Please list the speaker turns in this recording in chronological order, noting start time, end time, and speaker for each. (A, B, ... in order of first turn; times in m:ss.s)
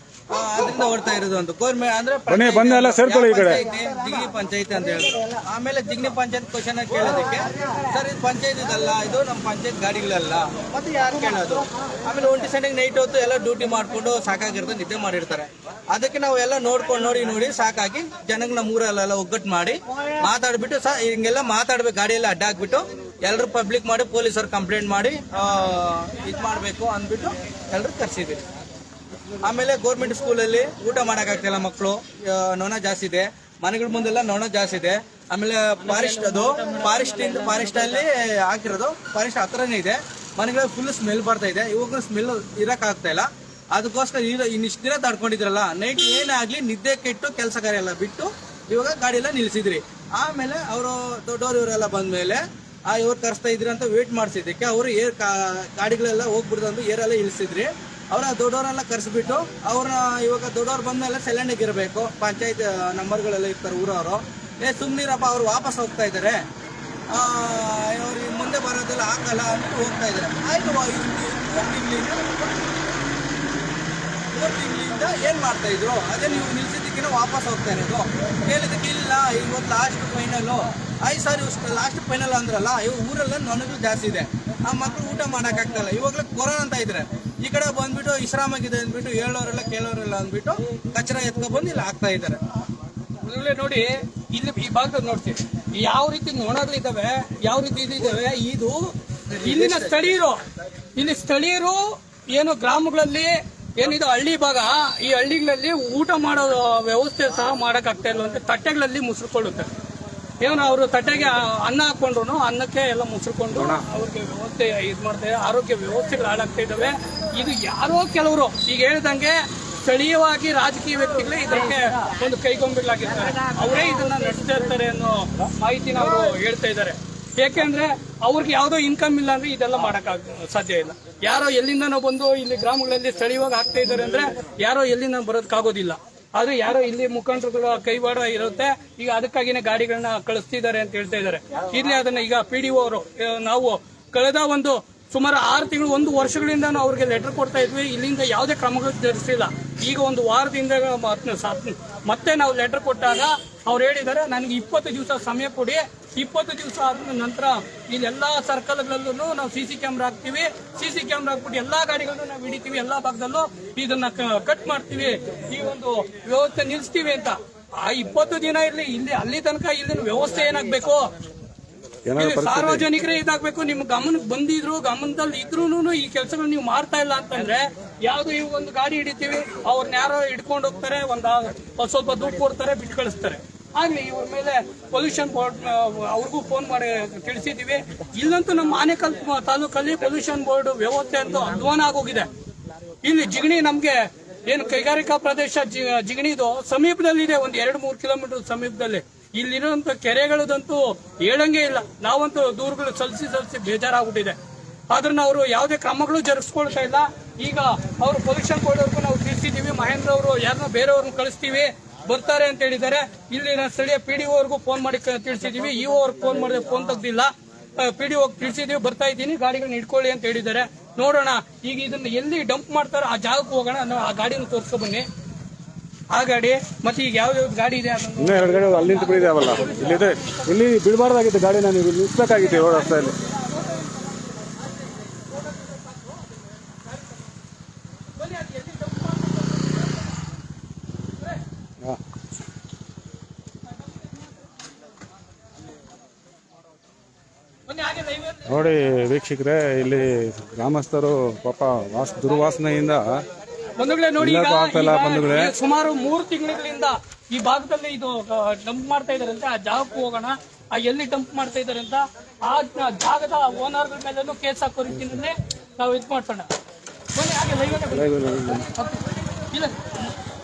0:00.3-0:28.4 A
0:02.3-0:03.6 B
0:29.4-1:06.4 A
1:07.1-1:12.7 A
1:14.3-1:32.4 A
1:33.2-1:38.7 C
1:38.2-1:38.8 A
1:39.3-1:40.1 A
1:39.4-1:40.4 C
1:41.0-1:49.7 C
1:50.4-2:51.1 C
1:53.5-1:53.8 B
2:52.1-2:52.9 B
2:52.2-3:12.3 C
3:13.0-3:24.4 C
3:24.9-3:45.1 C
3:46.1-3:50.6 C
3:48.2-3:53.2 B
3:52.2-3:54.5 C
3:55.1-3:56.1 C
3:58.1-3:59.5 C
4:07.7-4:08.6 C
4:08.5-4:13.2 B
4:13.8-4:26.5 C
4:14.2-4:15.6 B
4:27.1-4:30.1 C
4:27.9-4:28.7 B